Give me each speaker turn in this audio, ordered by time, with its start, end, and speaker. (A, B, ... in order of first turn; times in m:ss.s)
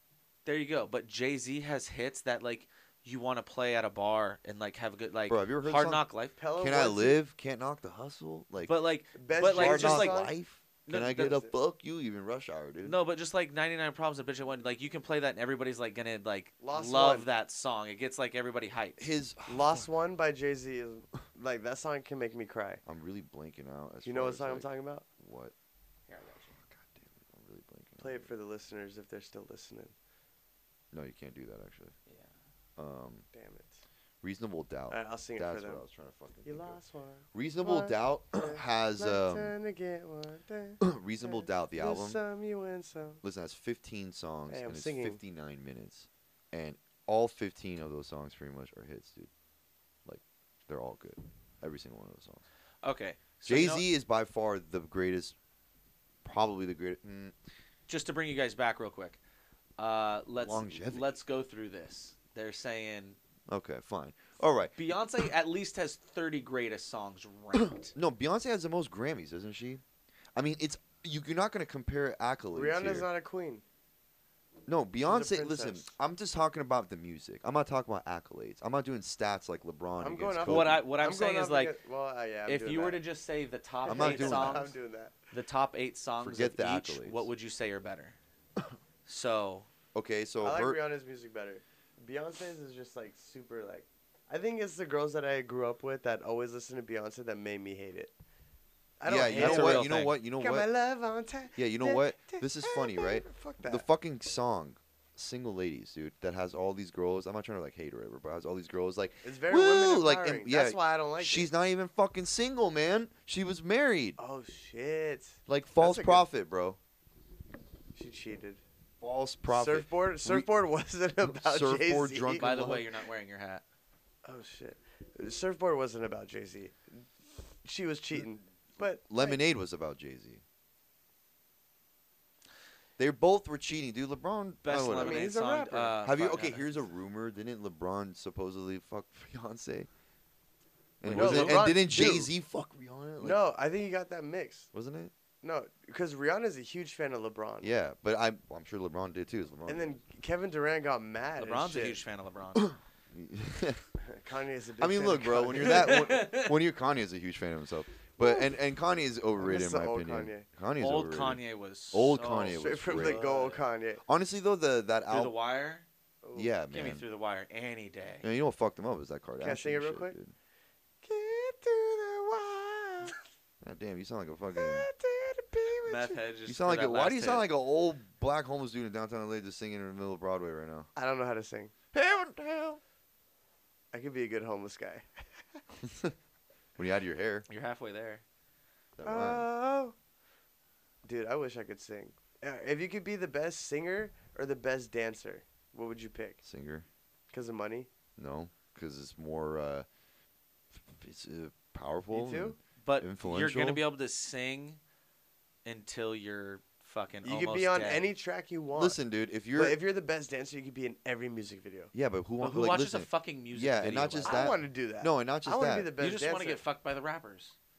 0:00.4-0:06.4 A
0:05.3-0:06.0 B
0:06.4-0:07.2 C
0:06.6-0:08.8 B
0:08.7-0:10.2 A
0:09.2-0:10.4 C
0:09.5-0:13.0 B
0:10.9-0:11.5 A
0:12.8-0:19.1 A
0:16.6-0:17.3 C
0:19.0-0:19.9 B
0:19.5-0:22.8 C
0:22.9-0:25.5 B
0:24.0-0:25.1 C
0:26.1-0:26.6 A
0:26.6-0:28.3 B
0:28.0-0:29.9 C
0:30.9-0:32.0 B
0:32.8-0:33.3 B
0:33.3-0:33.8 C
0:34.2-0:36.8 B
0:34.9-0:35.8 C
0:36.4-0:43.2 C
0:37.3-0:39.5 B
0:40.8-0:42.2 B
0:43.2-0:49.3 B
0:44.5-0:45.2 C
0:50.1-0:52.4 B
0:52.8-0:53.8 A
0:53.4-0:55.4 B
0:56.2-0:57.4 B
0:57.9-0:59.2 A
0:59.8-1:03.2 A
1:00.4-1:01.1 B
1:03.5-1:05.3 B
1:04.8-1:07.9 A
1:07.6-1:09.8 B
1:10.4-1:13.1 B
1:12.5-1:13.6 C
1:14.7-1:20.8 B
1:15.0-1:15.9 C
1:20.0-1:23.0 C
1:20.5-1:21.8 A
1:22.5-1:24.7 A
1:23.8-1:25.1 C
1:23.9-1:24.7 B
1:25.3-1:28.2 A
1:26.2-1:27.3 B
1:29.1-1:29.7 A
1:30.0-1:30.8 B
1:30.4-1:38.1 C
1:39.0-1:43.8 C
1:39.1-1:40.7 B
1:39.3-1:40.2 A
1:41.5-1:54.2 B
1:49.2-1:51.5 C
1:54.2-1:56.3 C
1:55.5-1:56.8 B
1:58.0-1:58.6 C
1:59.0-2:00.5 B
1:59.5-2:02.4 C
2:01.2-2:02.9 B
2:02.4-2:03.6 A
2:04.2-2:07.0 C
2:07.6-2:09.4 C
2:09.0-2:10.4 B
2:13.0-2:15.3 B
2:14.6-2:16.7 A
2:14.9-2:16.0 C
2:16.0-2:19.9 B
2:21.0-2:23.4 B
2:21.0-2:21.8 A
2:21.1-2:22.3 C
2:23.2-2:24.7 C
2:24.7-2:25.1 B
2:25.4-2:27.7 C
2:27.6-2:30.0 B
2:29.7-2:32.0 C
2:31.4-2:32.7 A
2:32.6-2:33.8 B
2:34.0-2:36.0 C
2:34.8-2:41.4 B
2:35.6-2:36.5 A
2:38.2-2:38.5 C
2:39.4-2:40.5 C
2:40.8-2:43.6 A
2:41.9-2:43.2 B
2:42.5-2:44.0 C
2:44.1-2:45.4 B
2:45.1-2:45.9 A
2:46.2-2:46.5 C
2:46.4-2:47.0 B
2:46.7-2:48.2 A
2:48.2-2:50.4 B
2:49.4-2:50.2 C
2:51.0-2:53.2 C
2:53.6-2:54.9 B
2:54.6-2:56.2 C
2:55.8-2:57.5 A
2:56.5-3:00.9 B
3:01.0-3:01.7 C
3:01.9-3:02.8 B
3:03.9-3:05.1 C
3:05.8-3:06.1 B
3:06.8-3:07.5 B
3:07.5-3:08.2 A
3:09.0-3:09.5 B
3:09.0-3:10.0 C
3:11.0-3:16.4 C
3:16.4-3:16.9 B
3:17.3-3:17.9 C
3:18.2-3:19.9 B
3:20.7-3:23.8 B
3:22.1-3:22.6 C
3:22.8-3:24.8 A
3:25.6-3:28.1 A
3:27.2-3:29.0 C
3:28.7-3:29.8 B
3:29.6-3:31.9 C
3:31.9-3:35.9 B
3:32.4-3:34.5 A
3:34.3-3:36.6 C
3:36.0-3:37.6 A